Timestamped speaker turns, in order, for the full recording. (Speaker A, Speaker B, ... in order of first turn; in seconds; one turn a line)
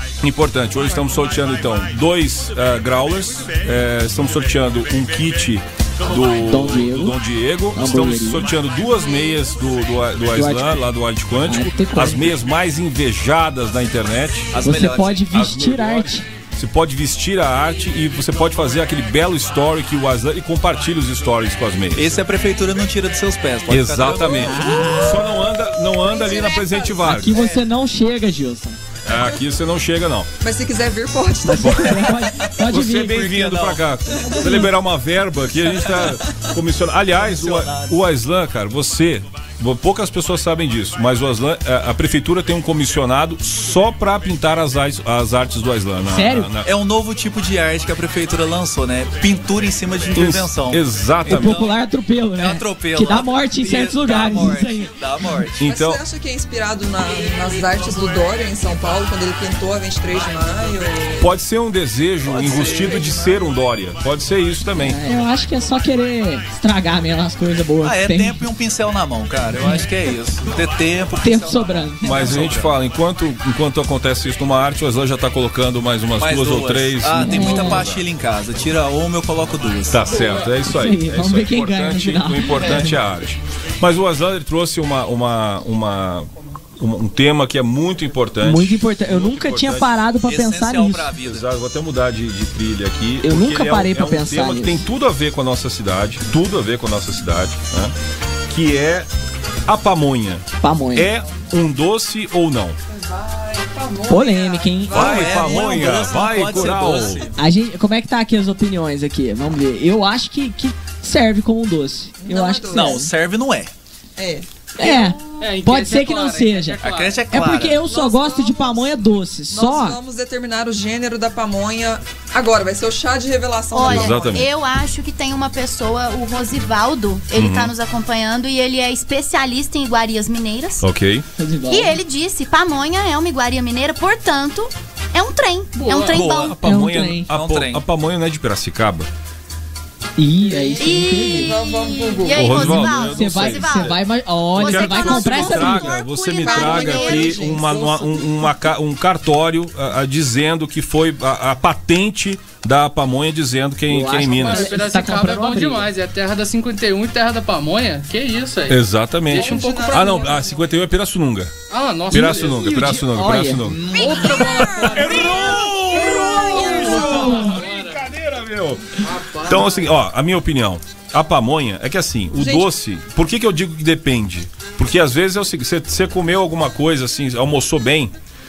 Speaker A: 0.2-14.6
Speaker B: 6.4-7.2
Speaker B: 7.7-8.5
Speaker B: 10.3-10.8
Speaker B: 11.4-12.4
Speaker C: 14.5-15.2
Speaker B: 14.6-16.2
Speaker A: 15.2-22.2
Speaker C: 21.9-24.8
Speaker A: 23.7-27.4
Speaker B: 24.3-25.3
Speaker D: 26.1-27.0
Speaker B: 27.0-28.8
Speaker A: 29.1-30.3
Speaker E: 30.4-32.2
Speaker B: 31.4-33.3
Speaker A: 31.6-32.2
Speaker A: 32.7-46.7
Speaker C: 33.1-33.9
Speaker B: 34.3-34.7
Speaker C: 37.1-38.0
Speaker B: 46.1-46.5
Speaker C: 46.6-51.8
Speaker A: 50.1-51.6
Speaker B: 51.3-55.0
Speaker C: 52.3-55.6
Speaker A: 55.6-56.0
Speaker E: 55.6-61.3
Speaker A: 61.2-65.0
Speaker C: 62.2-63.3
Speaker E: 62.4-63.4
Speaker B: 64.8-68.5
Speaker C: 67.8-72.8
Speaker B: 71.2-72.2
Speaker A: 72.0-78.0
Speaker C: 76.2-80.1
Speaker B: 77.2-77.8
Speaker A: 79.9-86.3
Speaker B: 80.6-83.0
Speaker A: 86.8-90.1
Speaker B: 88.4-91.1
Speaker C: 90.2-91.5
Speaker A: 91.2-97.9
Speaker B: 93.2-94.9
Speaker A: 98.5-99.1
Speaker A: 99.7-102.8
Speaker B: 100.6-101.1
Speaker E: 103.0-107.3
Speaker B: 104.1-105.2
Speaker A: 104.9-107.3
Speaker C: 104.9-107.3
Speaker B: 107.3-113.1
Speaker E: 112.2-113.0
Speaker C: 112.7-113.7
Speaker E: 114.2-114.5
Speaker B: 114.8-116.8
Speaker F: 115.4-117.3
Speaker C: 116.8-117.8
Speaker B: 117.3-120.0
Speaker E: 117.8-119.0
Speaker E: 119.5-124.5
Speaker D: 123.7-130.9
Speaker A: 123.8-124.5
Speaker A: 127.3-127.7
Speaker A: 130.8-131.2
Speaker B: 131.4-132.0
Speaker D: 131.7-136.6
Speaker F: 135.7-136.3
Speaker A: 136.1-139.1
Speaker B: 136.6-137.3
Speaker C: 137.3-137.9
Speaker B: 140.2-141.6
Speaker E: 140.4-142.8
Speaker D: 140.8-144.0
Speaker A: 142.3-144.0
Speaker B: 142.9-145.9
Speaker D: 144.6-147.5
Speaker A: 144.6-154.8
Speaker E: 146.4-148.1
Speaker B: 153.9-155.9
Speaker F: 154.2-160.5
Speaker A: 158.7-161.5
Speaker E: 159.3-160.6
Speaker F: 161.7-162.7
Speaker A: 162.1-164.0
Speaker B: 162.4-163.7
Speaker C: 163.6-164.7
Speaker E: 164.0-165.5
Speaker F: 164.0-165.7
Speaker A: 164.8-178.1
Speaker B: 166.0-167.6
Speaker E: 166.1-167.3
Speaker F: 166.6-168.0
Speaker F: 169.0-169.9
Speaker E: 172.3-172.7